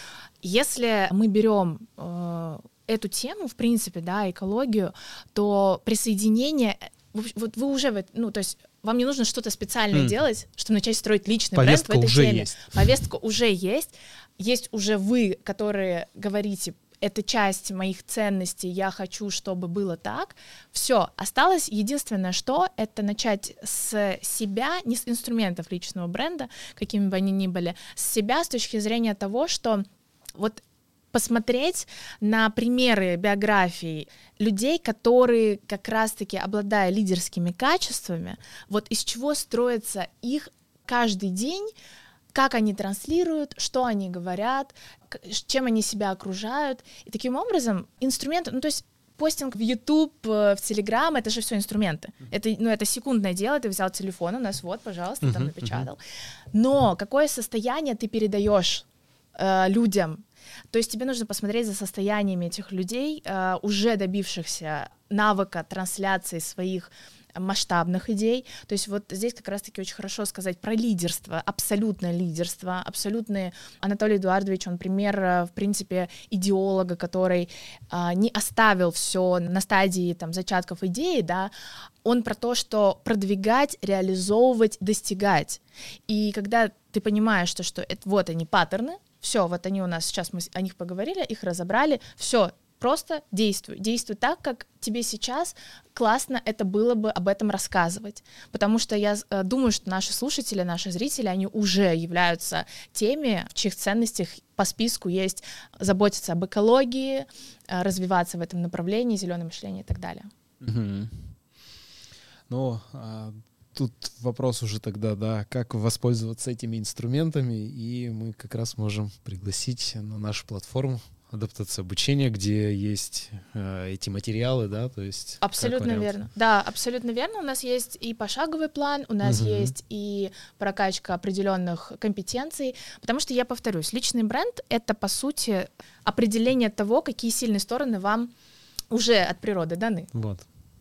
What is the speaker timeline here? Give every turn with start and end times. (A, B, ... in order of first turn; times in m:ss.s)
0:00.4-0:30.6 A
0:11.5-0:12.9 B
0:31.1-0:41.7 A
0:42.3-0:56.0 A
0:55.2-0:55.9 B
0:56.5-1:21.5 A
1:22.0-1:50.3 A
1:50.6-1:51.4 B
1:52.5-2:06.1 B
2:05.4-2:18.3 A
2:09.2-2:09.7 B
2:18.9-2:20.1 A
2:20.1-2:20.5 B